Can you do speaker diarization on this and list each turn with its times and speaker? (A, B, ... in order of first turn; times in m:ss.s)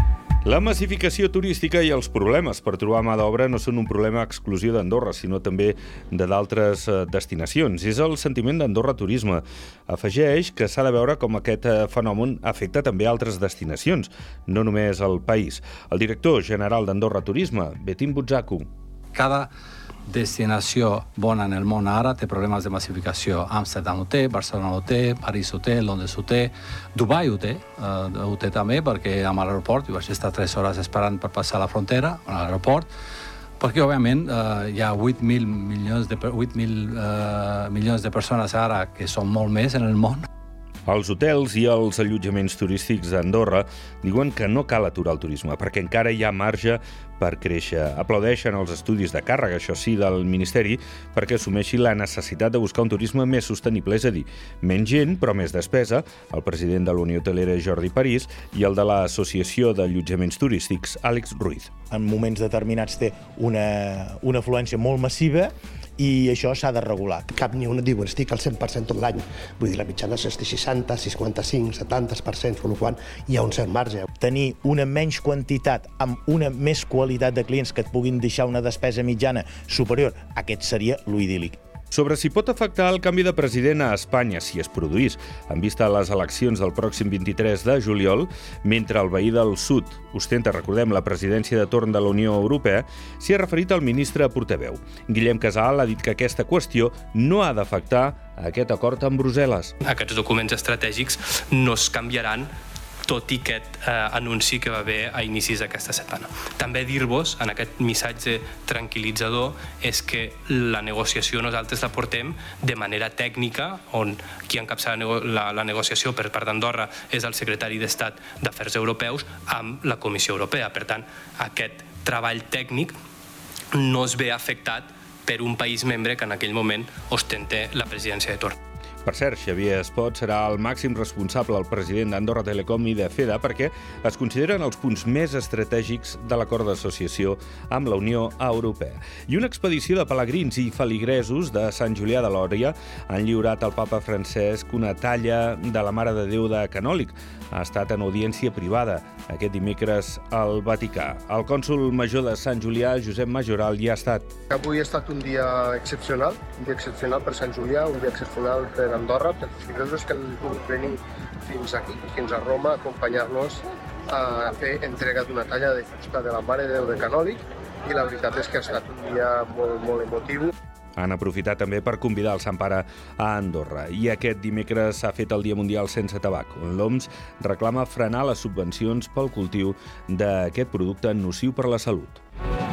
0:00.4-0:18.7 A
0:19.1-0:19.5 B
0:20.1-0:32.9 B
0:33.6-0:40.3 B
0:40.9-1:01.7 A
1:01.9-1:07.3 C
1:07.4-1:14.1 D
1:14.2-1:21.6 C
1:21.9-1:39.7 A
1:39.8-1:42.5 E
1:43.1-2:03.0 E
2:03.7-2:08.6 E
2:09.0-2:34.3 A
2:34.5-2:50.5 F
2:51.0-3:02.2 A